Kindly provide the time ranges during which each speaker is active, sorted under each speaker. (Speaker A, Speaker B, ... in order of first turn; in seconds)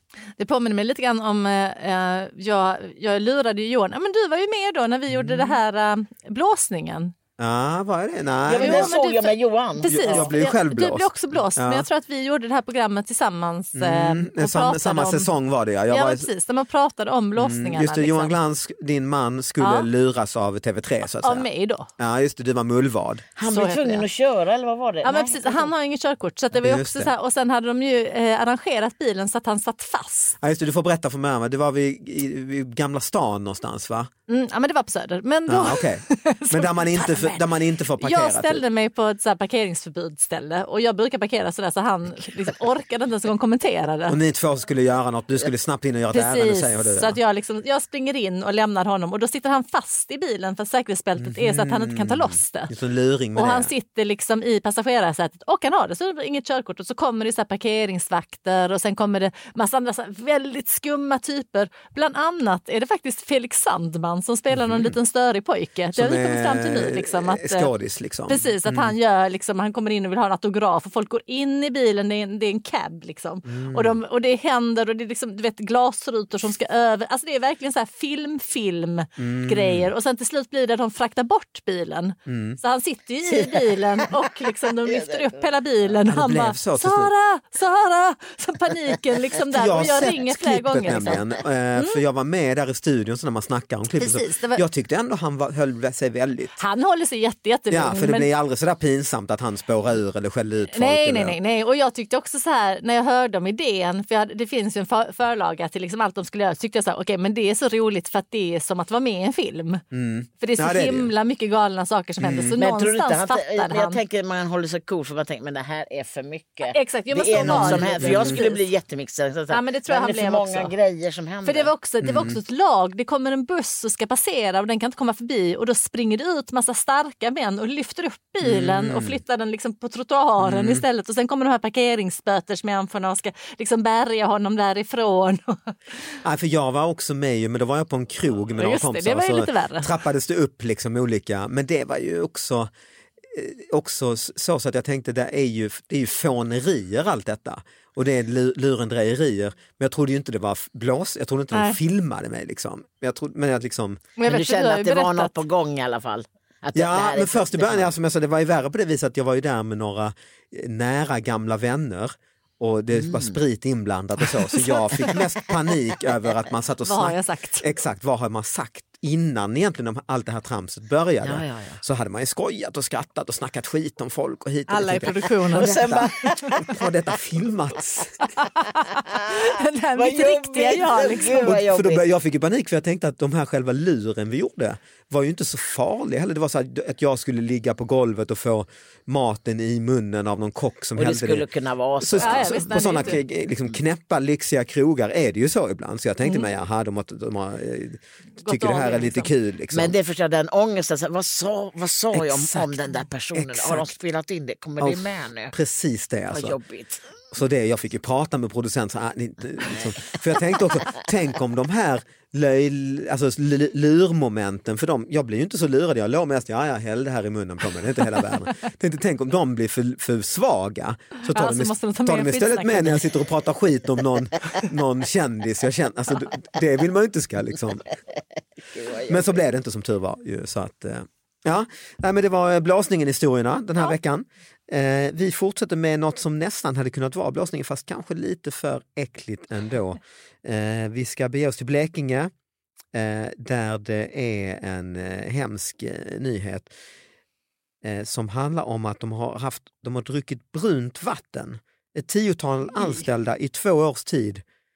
Speaker A: 0.4-7.1, 8.6-15.3, 15.9-18.3, 19.6-19.9, 21.2-21.9, 23.4-24.0, 25.0-30.4, 34.3-37.4, 38.0-44.2, 46.1-52.7, 53.3-67.7, 68.3-92.0, 94.0-94.6, 96.6-98.3, 100.7-109.8, 110.4-114.0, 116.6-118.7, 119.5-120.7, 121.4-136.2, 138.6-140.0, 151.5-151.8, 154.2-155.3, 164.6-164.9, 166.8-167.7, 174.7-176.1, 178.3-181.5, 192.2-193.2, 198.4-199.3, 221.2-223.2
Speaker B: 5.1-5.5, 7.4-8.9, 9.9-11.8, 13.7-16.3, 17.4-21.5, 22.0-23.2, 26.5-27.1, 30.4-34.1, 35.5-38.6, 44.1-47.2, 51.2-53.7, 64.5-65.0, 65.9-68.9, 73.5-74.0, 79.2-79.9, 82.3-82.6, 86.1-87.1, 89.5-96.5, 97.7-101.4, 109.9-111.1, 112.2-112.6, 117.4-118.4, 122.0-122.4, 128.4-129.2, 130.4-130.8, 136.2-142.7, 143.3-154.0, 156.7-178.2, 181.4-191.4, 192.0-199.9, 202.1-202.8, 203.3-203.9, 204.8-206.6, 207.3-227.9, 229.1-242.3, 242.9-246.7, 247.8-254.4
Speaker C: 8.4-10.3, 23.4-25.7, 83.3-84.1, 84.8-85.4, 112.6-121.7, 154.2-157.9, 162.9-163.3, 171.2-171.8, 175.5-176.8, 179.1-182.0, 191.0-193.2, 199.7-205.5, 206.3-207.0, 228.7-229.4